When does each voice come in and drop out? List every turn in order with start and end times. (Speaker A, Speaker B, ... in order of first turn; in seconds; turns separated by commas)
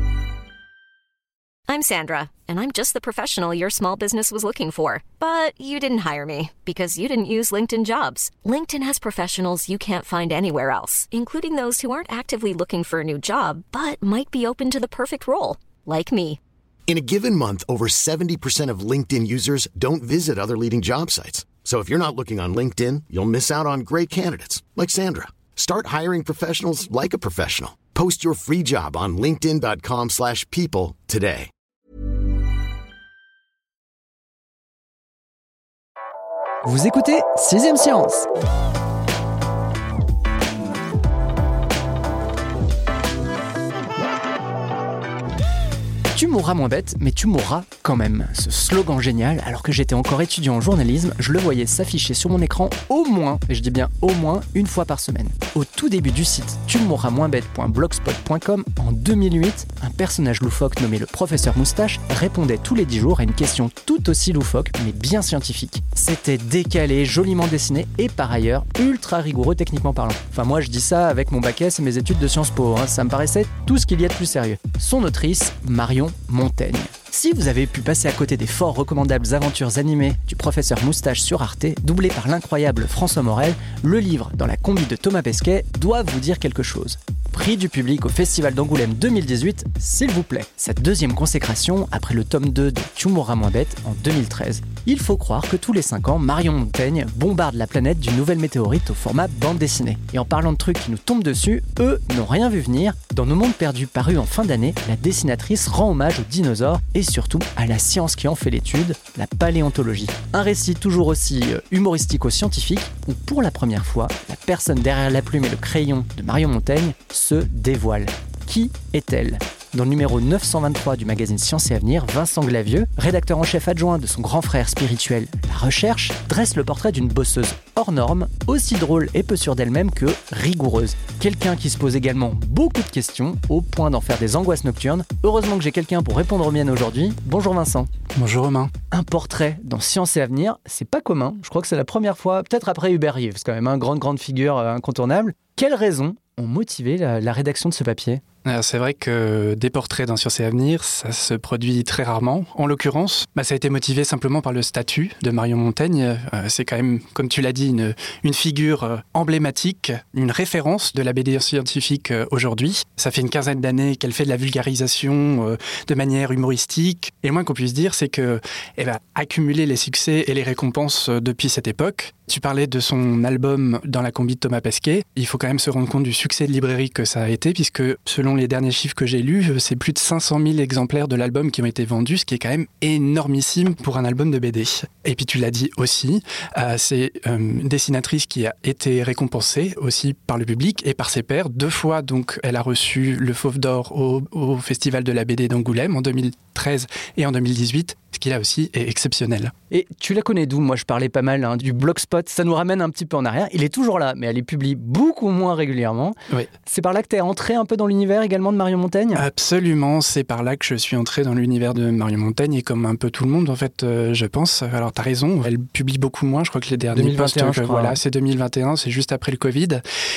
Speaker A: 1.7-16.4, Speaker B: 16.9-31.5, Speaker C: 36.6-38.3, Speaker C: 46.1-137.9, Speaker D: 138.1-138.7, Speaker C: 138.9-148.2, Speaker D: 148.4-199.5, Speaker C: 199.7-209.2, Speaker D: 209.1-219.8, Speaker C: 216.9-218.0